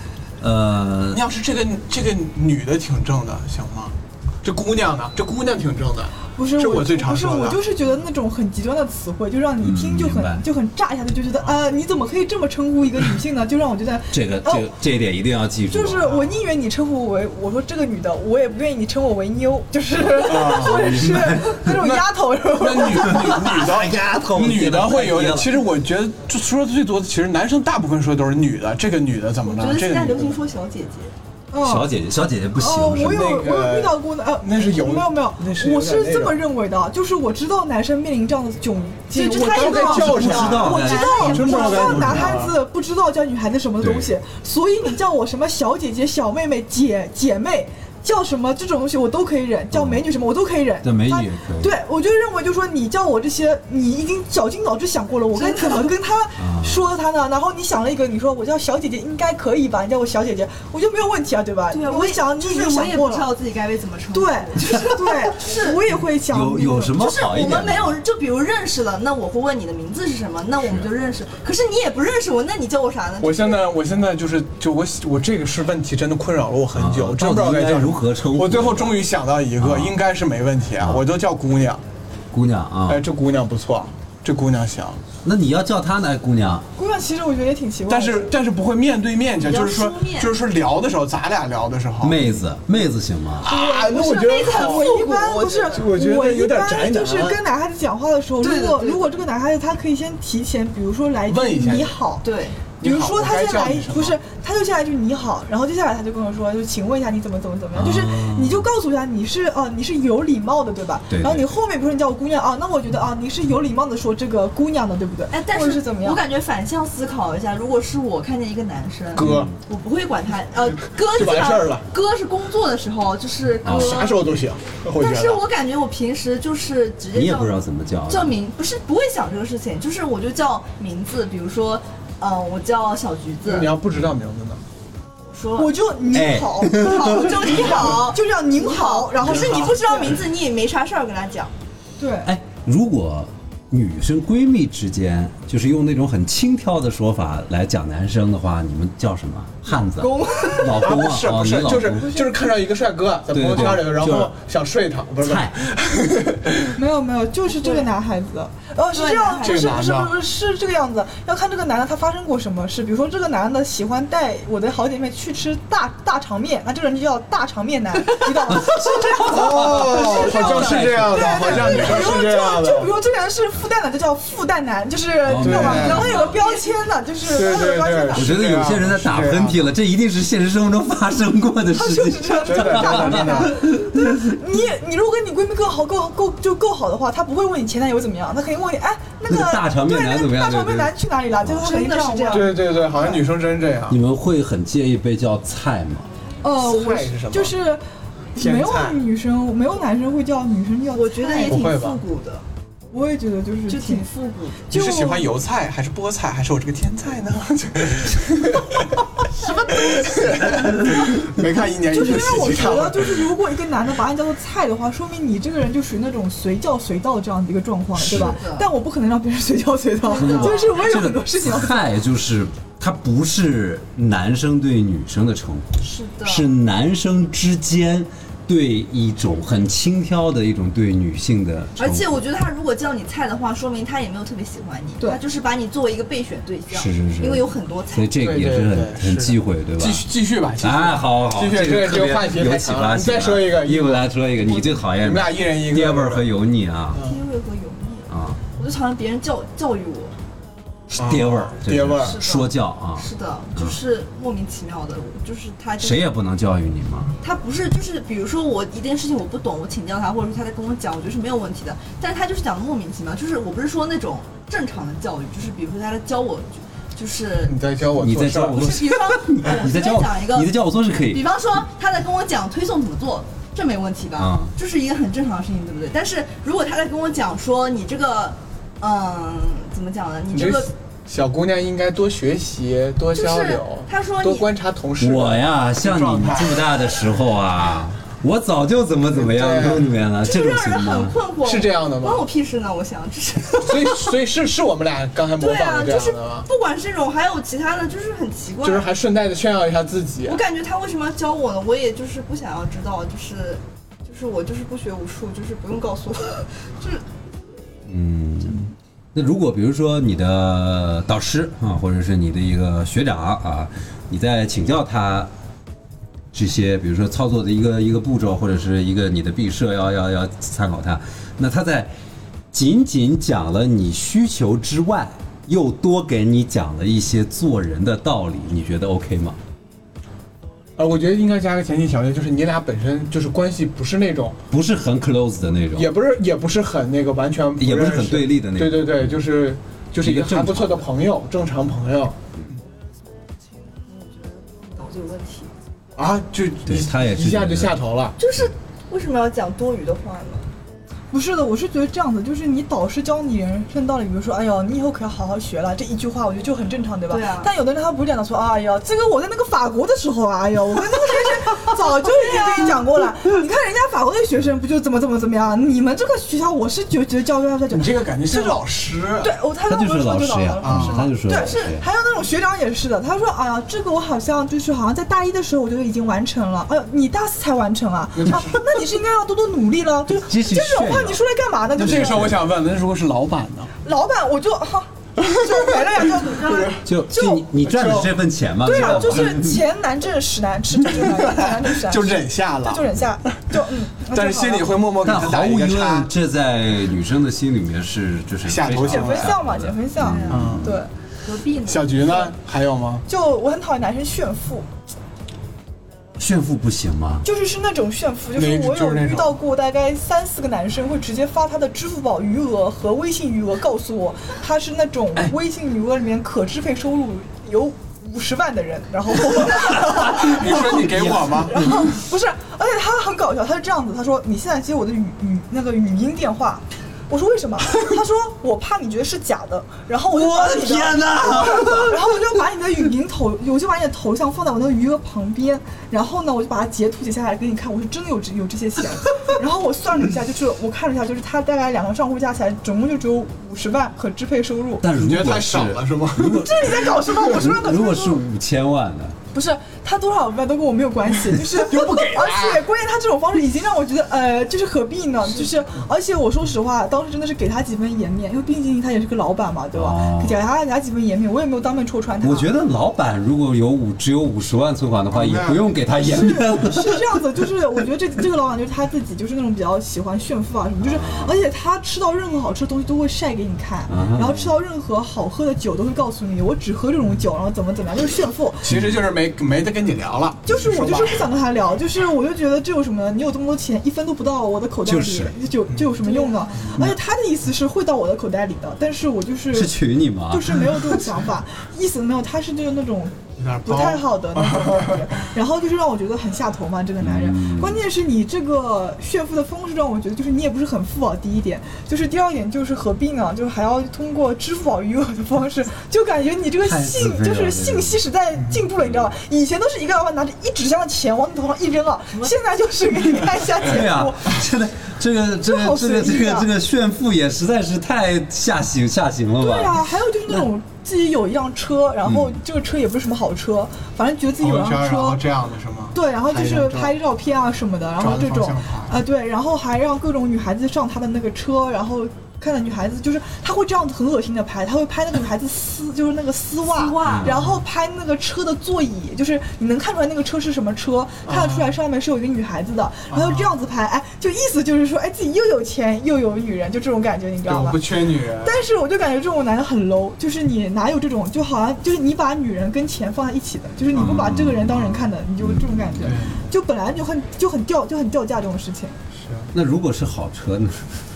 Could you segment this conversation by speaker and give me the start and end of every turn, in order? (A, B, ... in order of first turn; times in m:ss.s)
0:00.4-0:01.2 A
0:01.1-0:07.6 B
0:06.3-0:14.7 C
0:09.6-0:10.4 A
0:14.1-0:16.2 A
0:15.7-0:23.6 C
0:20.1-0:30.4 B
0:23.0-0:25.6 A
0:29.4-0:31.1 D
0:31.5-0:31.9 C
0:31.6-0:33.3 A
0:32.6-1:03.3 C
0:32.9-0:36.4 B
0:39.1-0:42.2 D
0:39.4-0:42.6 B
0:40.0-0:42.4 A
0:43.8-0:44.1 A
0:49.7-0:50.0 A
0:50.8-0:51.8 A
0:55.3-0:55.9 D
0:56.4-0:56.8 A
1:01.7-1:05.8 D
1:04.1-1:07.1 C
1:06.2-1:08.0 A
1:07.0-1:13.6 D
1:10.6-1:10.9 A
1:13.2-1:21.8 B
1:16.7-1:19.0 A
1:19.6-1:20.0 A
1:22.3-1:23.0 A
1:22.9-1:25.0 B
1:25.2-1:26.6 A
1:26.8-1:28.3 C
1:27.9-1:32.2 B
1:29.4-1:30.3 D
1:32.0-1:33.5 A
1:33.4-1:35.0 B
1:33.5-1:42.2 C
1:33.5-1:35.9 D
1:35.6-1:37.4 B
1:38.4-1:39.2 D
1:41.3-1:42.0 B
1:42.2-1:42.6 D
1:42.8-1:44.2 B
1:42.8-1:56.2 C
1:47.7-1:48.7 A
1:51.1-1:51.5 A
1:55.3-2:04.4 D
1:59.1-1:59.5 B
1:59.2-1:59.5 A
2:01.1-2:01.8 B
2:03.6-2:04.0 A
2:03.6-2:05.4 B
2:05.0-2:13.7 D
2:07.1-2:08.3 A
2:13.4-2:14.6 B
2:15.3-2:15.7 D
2:15.6-2:20.2 C
2:16.1-2:17.6 A
2:16.7-2:21.5 D
2:19.2-2:19.7 B
2:22.0-2:22.3 C
2:22.2-2:32.1 A
2:29.7-2:30.8 D
2:30.6-2:36.8 B
2:31.9-2:32.4 C
2:33.3-2:34.3 A
2:35.2-2:35.7 A
2:36.7-2:58.3 C
2:37.5-2:37.9 D
2:38.9-2:39.9 D
2:39.4-2:40.2 B
2:48.4-2:51.0 A
2:49.2-2:52.9 B
2:55.2-2:56.3 A
2:55.4-2:56.1 B
2:55.7-2:56.7 D
2:57.2-2:59.7 B
2:58.1-3:04.4 A
3:01.7-3:12.7 C
3:02.4-3:03.6 B
3:09.3-3:11.7 A
3:11.6-3:13.0 D
3:12.3-3:14.0 B
3:13.9-3:16.1 A
3:16.4-3:17.8 C
3:16.6-3:17.5 B
3:18.4-3:19.0 B
3:18.4-3:21.6 C
3:20.9-3:22.4 D
3:21.5-3:22.0 B
3:22.9-3:24.1 C
3:23.7-3:24.7 D
3:24.7-3:25.3 C
3:24.7-3:29.0 B
3:29.4-3:30.5 C
3:29.6-3:33.3 B
3:30.5-3:31.0 A
3:31.8-3:41.9 C
3:38.0-3:38.4 A
3:38.1-3:38.7 D
3:40.0-3:40.8 D
3:40.2-3:52.2 A
3:45.8-3:46.5 D
3:51.8-3:58.1 D
3:56.7-4:00.0 A
3:58.2-4:04.0 B
4:00.6-4:07.0 A
4:05.0-4:06.2 B
4:07.0-4:10.1 D
4:08.1-4:08.4 A
4:10.9-4:13.8 A
4:11.0-4:12.2 B
4:12.0-4:16.1 D
4:15.8-4:17.1 A
4:17.2-4:27.6 D
4:27.4-4:28.8 B
4:28.0-4:31.2 A
4:28.5-4:40.7 D
4:34.2-4:34.5 A
4:40.3-4:46.8 B
4:43.1-4:44.5 D
4:45.0-4:51.1 A
4:49.1-4:49.9 B
4:50.2-4:54.1 D
4:51.4-4:52.3 B
4:53.6-4:56.5 B
4:55.4-4:58.9 D
4:58.6-5:00.4 B
5:00.2-5:07.0 D
5:07.9-5:15.3 A
5:16.3-5:21.9 A
5:22.5-5:29.4 A
5:30.8-5:34.4 B
5:34.5-5:35.9 A
5:35.7-5:42.2 B
5:37.6-5:39.1 A
5:40.0-5:40.9 A
5:43.9-5:45.5 D
5:46.0-5:48.1 B
5:46.6-5:47.8 A
5:48.2-5:50.5 D
5:51.1-6:08.6 C
5:57.1-5:57.5 D
6:07.7-6:09.3 B
6:09.2-6:22.4 C
6:09.7-6:11.8 A
6:10.6-6:11.1 B
6:11.3-6:11.8 D
6:18.1-6:18.6 B
6:20.1-6:21.2 A
6:21.8-6:23.7 B
6:21.8-6:22.4 A
6:23.8-6:27.4 C
6:25.2-6:26.8 B
6:26.8-6:29.6 A
6:27.6-6:28.2 B
6:28.6-6:34.8 C
6:28.7-6:29.0 B
6:30.9-6:33.6 B
6:34.1-6:36.1 B
6:35.0-6:40.8 A
6:38.4-6:39.4 B
6:38.8-6:40.9 C
6:40.0-6:40.5 D
6:40.3-6:40.8 B
6:41.2-6:42.2 D
6:41.6-6:43.0 B
6:43.1-6:44.7 C
6:46.2-6:47.2 A
6:47.2-7:24.8 C
6:48.3-6:49.4 B
6:59.7-7:01.6 B
7:01.5-7:01.9 A
7:10.1-7:12.2 A
7:24.8-7:29.2 A
7:24.9-7:27.2 B
7:26.2-7:28.2 C
7:29.3-7:42.5 C
7:31.4-7:32.6 B
7:39.7-7:40.4 A
7:42.2-7:47.0 A
7:45.1-7:45.7 B
7:46.3-7:58.8 C
7:50.8-7:51.5 A
7:53.9-7:54.6 A
7:58.6-8:01.3 B
8:00.4-8:34.4 C
8:04.8-8:05.4 A
8:06.0-8:06.7 D
8:06.6-8:06.9 B
8:09.5-8:11.0 A
8:13.4-8:15.0 B
8:17.0-8:17.8 A
8:26.6-8:28.0 A
8:28.3-8:28.6 B
8:28.8-8:29.1 A
8:33.6-8:40.5 A
8:35.4-8:36.5 C
8:39.4-8:45.2 C
8:42.0-8:42.4 A
8:44.4-8:46.9 B
8:45.9-9:19.0 C
8:48.0-8:49.0 B
8:56.7-8:57.4 D
8:57.0-8:57.3 A
8:57.2-8:57.6 B
9:01.2-9:01.8 B
9:03.1-9:03.5 B
9:07.4-9:08.6 B
9:13.9-9:15.0 B
9:13.9-9:14.8 A
9:15.4-9:16.2 A
9:16.0-9:16.4 B
9:19.2-9:19.5 B
9:19.5-9:21.0 A